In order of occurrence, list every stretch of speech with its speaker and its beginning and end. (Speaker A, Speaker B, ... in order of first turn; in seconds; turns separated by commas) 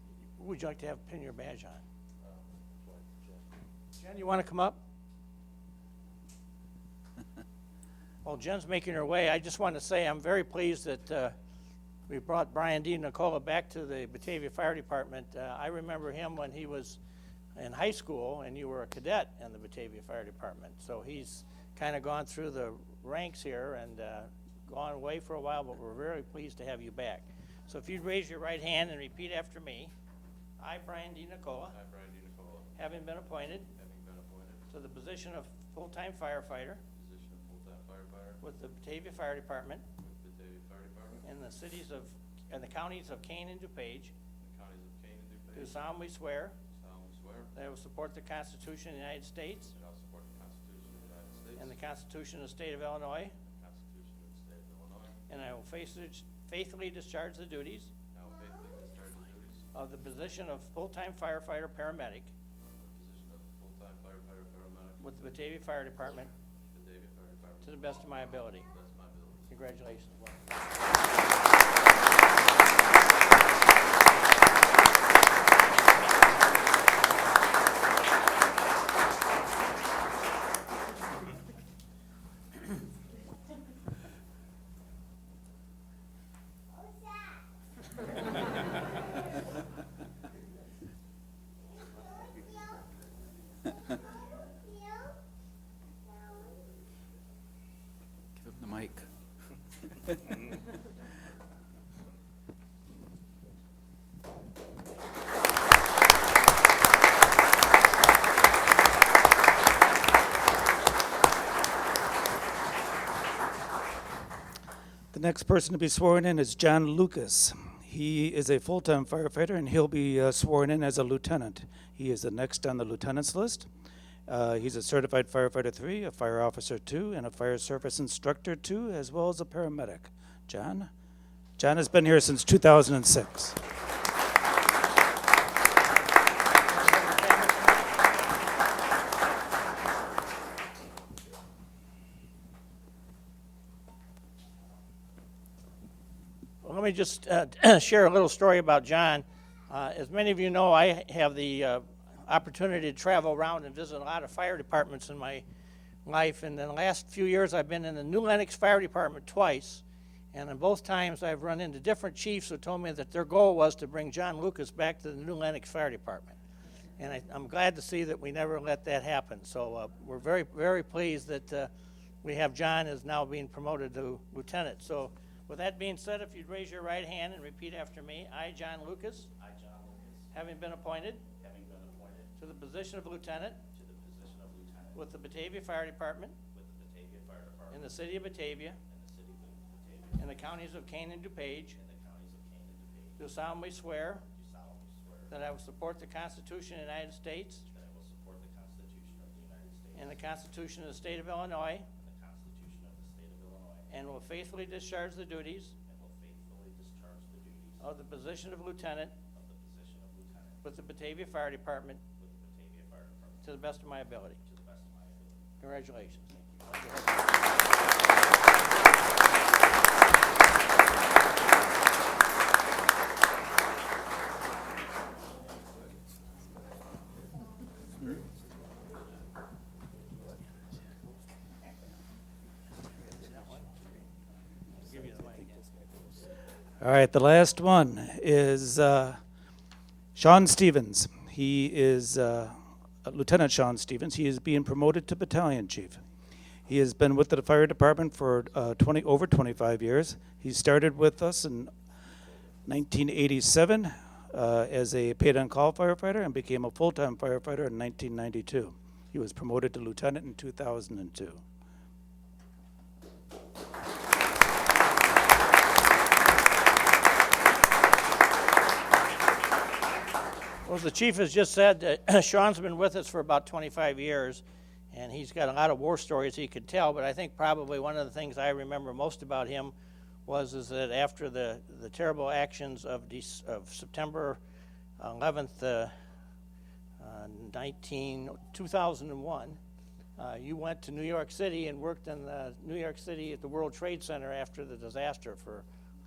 Speaker A: 0.4-1.8, Speaker B: 2.2-3.0, Speaker A: 4.0-4.8, Speaker A: 8.2-11.3, Speaker A: 12.1-17.0, Speaker A: 17.6-29.9, Speaker A: 30.6-31.7, Speaker B: 31.7-32.9, Speaker A: 32.8-33.7, Speaker B: 33.6-34.7, Speaker A: 34.7-36.8, Speaker B: 36.9-38.4, Speaker A: 38.4-39.8, Speaker B: 40.0-41.2, Speaker A: 41.2-44.1, Speaker B: 44.4-45.8, Speaker A: 45.5-46.5, Speaker B: 46.7-47.5, Speaker A: 47.5-49.7, Speaker B: 49.7-51.7, Speaker A: 51.6-53.3, Speaker B: 53.4-55.2, Speaker A: 55.3-57.9, Speaker B: 58.1-59.7, Speaker A: 59.7-62.3, Speaker B: 62.8-65.0, Speaker A: 65.0-66.3, Speaker B: 66.7-69.5, Speaker A: 67.6-68.7, Speaker A: 69.5-70.4, Speaker C: 115.1-123.7, Speaker C: 124.3-130.9, Speaker C: 131.6-133.6, Speaker A: 136.6-137.9, Speaker A: 146.6-155.4, Speaker A: 156.1-166.4, Speaker A: 167.0-171.7, Speaker A: 172.2-179.3, Speaker D: 179.4-180.3, Speaker A: 180.3-181.2, Speaker D: 181.4-182.3, Speaker A: 182.4-183.6, Speaker D: 183.7-185.0, Speaker A: 184.9-186.3, Speaker D: 186.5-187.9, Speaker A: 187.7-188.8, Speaker D: 188.8-190.2, Speaker A: 190.2-191.8, Speaker D: 191.8-193.2, Speaker A: 193.2-194.2, Speaker D: 194.3-195.3, Speaker A: 195.3-197.7, Speaker D: 197.7-200.1, Speaker A: 199.9-201.9, Speaker D: 201.9-203.9, Speaker A: 203.9-205.7, Speaker D: 205.8-207.8, Speaker A: 207.8-209.1, Speaker D: 209.3-210.6, Speaker A: 210.6-212.0, Speaker D: 212.2-213.4, Speaker A: 213.4-214.4, Speaker D: 214.4-215.5, Speaker A: 215.6-217.4, Speaker D: 216.4-217.0, Speaker A: 233.1-233.7, Speaker A: 234.8-235.5, Speaker C: 236.8-239.2, Speaker C: 240.2-246.0, Speaker C: 246.7-251.7, Speaker C: 252.7-261.4, Speaker A: 270.6-279.7, Speaker A: 280.2-284.4, Speaker A: 285.0-285.9, Speaker A: 287.0-289.6, Speaker A: 290.2-295.6